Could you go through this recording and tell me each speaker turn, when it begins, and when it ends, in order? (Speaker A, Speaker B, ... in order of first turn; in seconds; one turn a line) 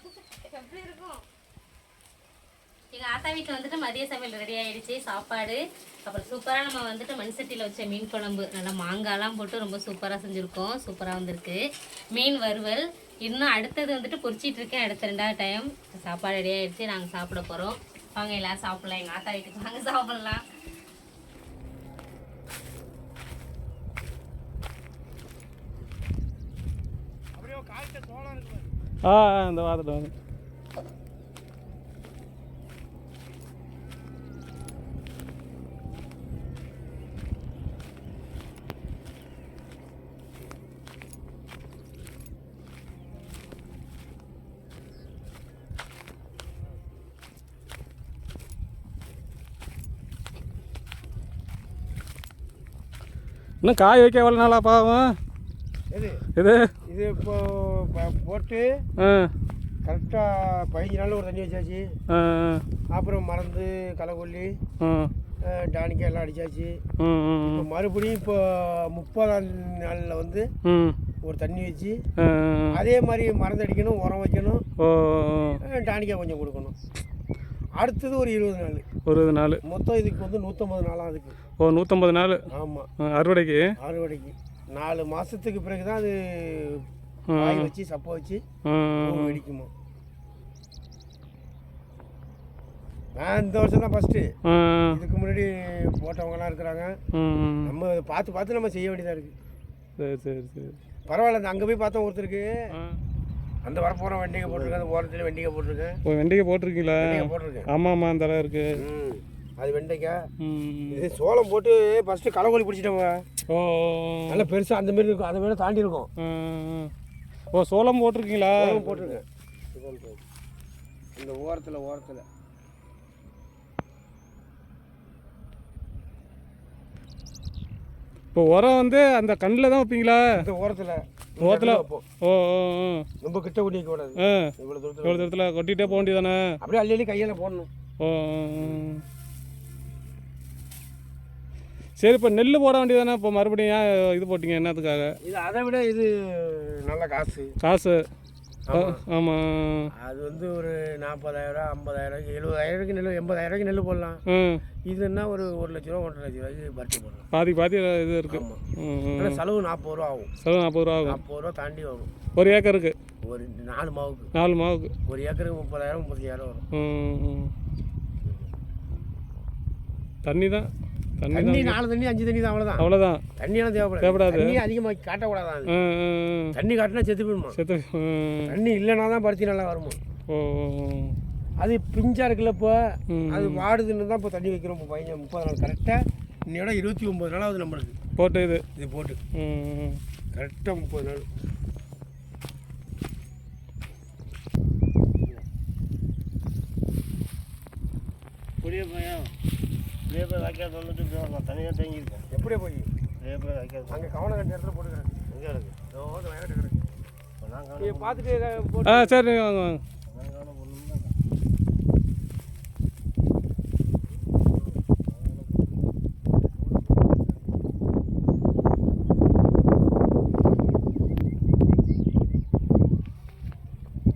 Speaker A: 0.4-1.2
Speaker A: 2.9-11.6
Speaker A: 12.1-20.4
Speaker B: 27.4-28.7
Speaker C: 29.0-30.1
Speaker C: 53.6-55.1
Speaker B: 55.9-56.2
Speaker C: 56.4-56.7
Speaker B: 56.9-58.8
Speaker C: 59.0-59.3
Speaker B: 59.8-61.9
Speaker C: 62.1-62.6
Speaker B: 62.9-64.6
Speaker C: 64.8-65.1
Speaker B: 65.4-66.8
Speaker C: 67.0-67.7
Speaker B: 67.4-70.5
Speaker C: 70.7-71.0
Speaker B: 71.2-72.0
Speaker C: 72.2-72.8
Speaker B: 72.7-74.6
Speaker C: 74.8-75.6
Speaker B: 75.6-76.7
Speaker B: 77.8-78.8
Speaker C: 79.0-79.6
Speaker B: 79.6-81.4
Speaker C: 81.6-82.4
Speaker B: 82.5-82.9
Speaker C: 83.0-83.6
Speaker B: 83.8-86.8
Speaker C: 87.3-87.7
Speaker B: 87.3-88.4
Speaker C: 88.7-89.4
Speaker B: 89.0-89.7
Speaker B: 93.2-94.3
Speaker C: 94.5-95.0
Speaker B: 94.9-96.9
Speaker C: 97.1-97.7
Speaker B: 97.7-99.3
Speaker C: 100.0-100.8
Speaker B: 101.1-102.7
Speaker C: 102.7-103.0
Speaker B: 103.6-106.0
Speaker D: 104.4-104.8
Speaker C: 106.1-108.8
Speaker B: 107.0-107.7
Speaker B: 108.8-110.3
Speaker C: 110.4-111.0
Speaker B: 110.9-113.2
Speaker C: 113.5-114.5
Speaker B: 114.3-116.1
Speaker C: 116.2-116.9
Speaker C: 117.5-118.9
Speaker B: 118.5-119.2
Speaker D: 119.7-120.2
Speaker B: 121.2-122.2
Speaker C: 128.3-130.4
Speaker B: 130.4-132.0
Speaker C: 131.4-133.1
Speaker B: 133.2-135.3
Speaker C: 134.2-134.5
Speaker C: 135.0-136.6
Speaker B: 136.6-137.7
Speaker C: 138.0-139.0
Speaker B: 138.6-138.8
Speaker C: 142.0-145.1
Speaker B: 145.2-147.5
Speaker C: 147.6-148.0
Speaker B: 148.7-149.0
Speaker C: 148.7-149.9
Speaker B: 149.9-154.2
Speaker C: 154.3-154.6
Speaker B: 154.9-157.3
Speaker C: 157.3-159.4
Speaker B: 158.3-158.6
Speaker B: 159.2-160.3
Speaker C: 160.4-161.2
Speaker B: 161.1-162.1
Speaker C: 162.4-162.9
Speaker B: 163.3-164.3
Speaker C: 164.3-164.9
Speaker B: 165.1-166.6
Speaker C: 166.7-167.5
Speaker B: 168.2-168.5
Speaker C: 170.2-170.7
Speaker C: 171.2-171.8
Speaker B: 171.3-172.9
Speaker C: 172.8-173.2
Speaker B: 173.4-175.7
Speaker C: 174.0-174.6
Speaker C: 175.7-176.6
Speaker B: 176.5-177.6
Speaker C: 177.6-178.6
Speaker B: 178.5-180.0
Speaker C: 180.3-181.2
Speaker B: 181.6-187.9
Speaker C: 183.1-183.7
Speaker C: 188.2-188.6
Speaker B: 188.8-189.2
Speaker C: 189.3-190.0
Speaker B: 190.3-191.2
Speaker D: 198.6-199.3
Speaker D: 200.1-202.2
Speaker B: 202.3-202.9
Speaker D: 203.2-204.1
Speaker B: 203.9-205.2
Speaker D: 205.3-205.8
Speaker B: 205.9-206.8
Speaker D: 207.4-208.4
Speaker B: 207.8-209.2
Speaker C: 208.8-209.8
Speaker D: 210.1-211.1